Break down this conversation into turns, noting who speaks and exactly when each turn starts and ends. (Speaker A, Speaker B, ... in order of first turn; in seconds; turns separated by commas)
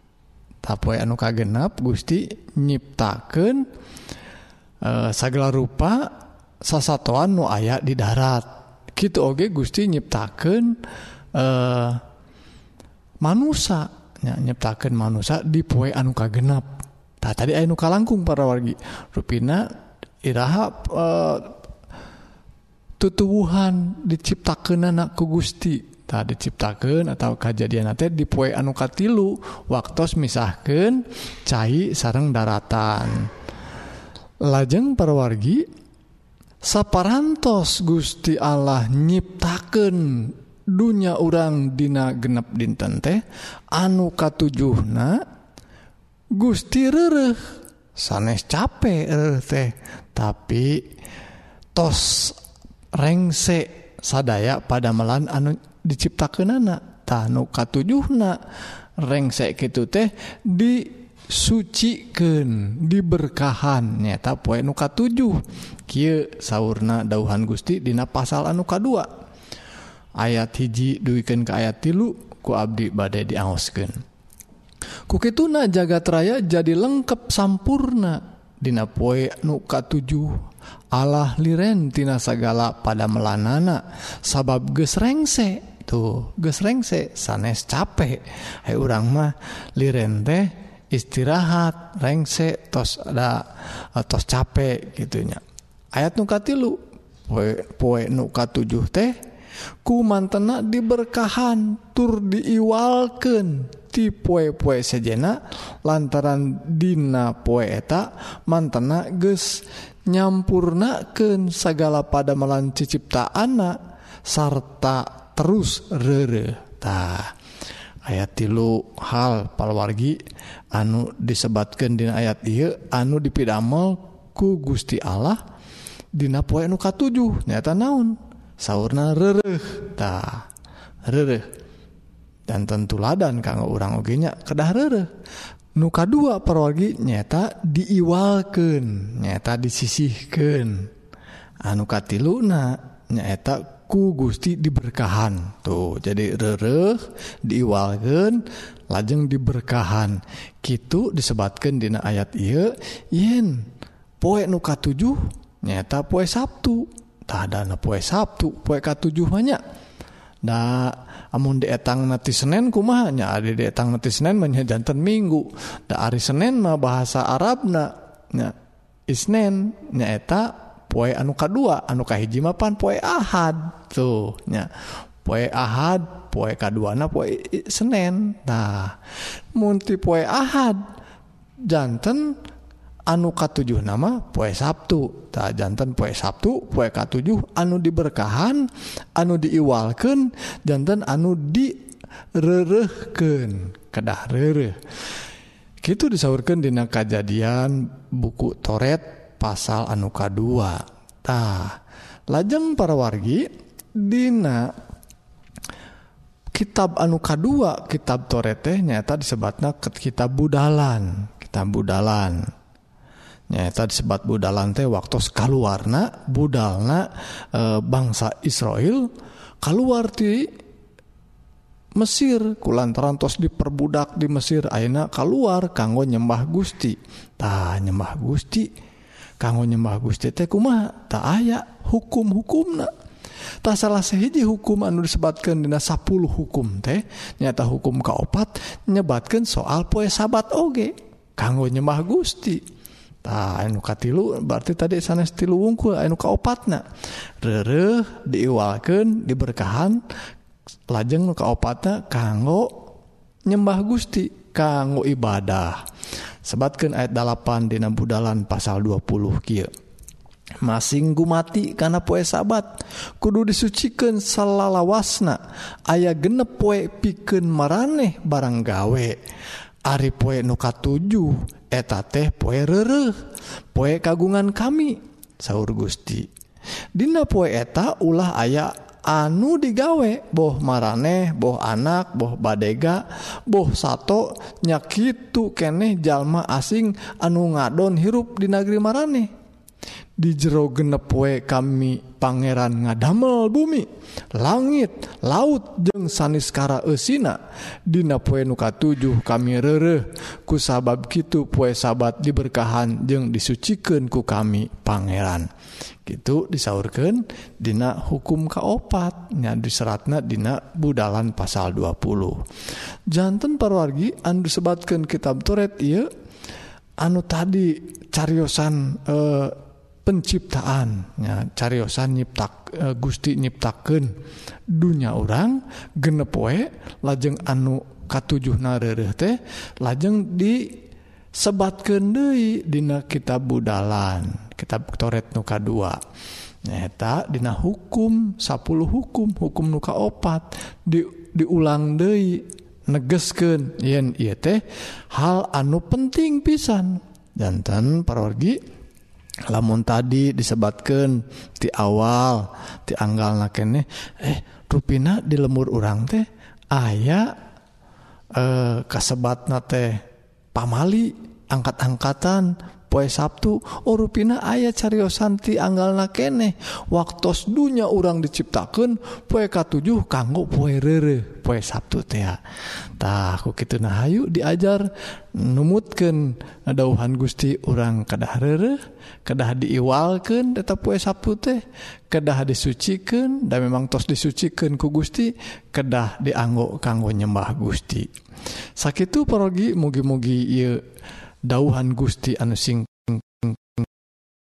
Speaker A: 0.6-3.6, Speaker A: 4.8-6.1, Speaker A: 6.6-10.8, Speaker A: 11.3-12.0, Speaker A: 13.2-19.7, Speaker A: 20.2-21.6, Speaker A: 23.0-33.3, Speaker A: 34.5-35.6, Speaker A: 36.6-45.2, Speaker A: 46.4-50.8, Speaker A: 51.7-52.4, Speaker A: 53.0-58.4, Speaker A: 59.0-69.1, Speaker A: 70.2-73.9, Speaker A: 75.1-80.4, Speaker A: 80.9-93.4, Speaker A: 94.0-95.4, Speaker A: 95.9-99.1, Speaker A: 99.8-117.3, Speaker A: 118.0-120.2, Speaker A: 120.7-125.4, Speaker A: 126.2-130.4, Speaker A: 131.1-131.4, Speaker A: 132.5-135.1, Speaker A: 135.8-140.9, Speaker A: 141.6-153.7, Speaker A: 154.2-159.6, Speaker A: 160.4-168.5, Speaker A: 169.1-174.7, Speaker A: 175.2-179.0, Speaker A: 179.5-180.8, Speaker A: 181.7-182.3, Speaker A: 183.1-191.8, Speaker A: 192.3-194.7, Speaker A: 195.8-201.8, Speaker A: 202.3-203.5, Speaker A: 204.0-204.7, Speaker A: 206.5-212.4, Speaker A: 213.5-219.1, Speaker A: 219.6-220.5, Speaker A: 222.0-228.7, Speaker A: 229.4-232.9, Speaker A: 233.6-242.6, Speaker A: 243.2-246.8, Speaker A: 247.4-250.0, Speaker A: 250.9-252.9, Speaker A: 253.5-255.8, Speaker A: 256.4-259.7, Speaker A: 260.6-269.2, Speaker A: 269.9-273.2, Speaker A: 273.7-276.3, Speaker A: 276.9-289.3, Speaker A: 290.2-305.5, Speaker A: 306.1-312.4, Speaker A: 313.1-316.1, Speaker A: 317.0-324.1, Speaker A: 324.7-330.8, Speaker A: 331.4-336.0, Speaker A: 336.6-348.6, Speaker A: 349.5-357.3, Speaker A: 358.4-360.0, Speaker A: 360.5-372.4, Speaker A: 373.0-388.1, Speaker A: 388.8-390.8, Speaker A: 391.4-393.9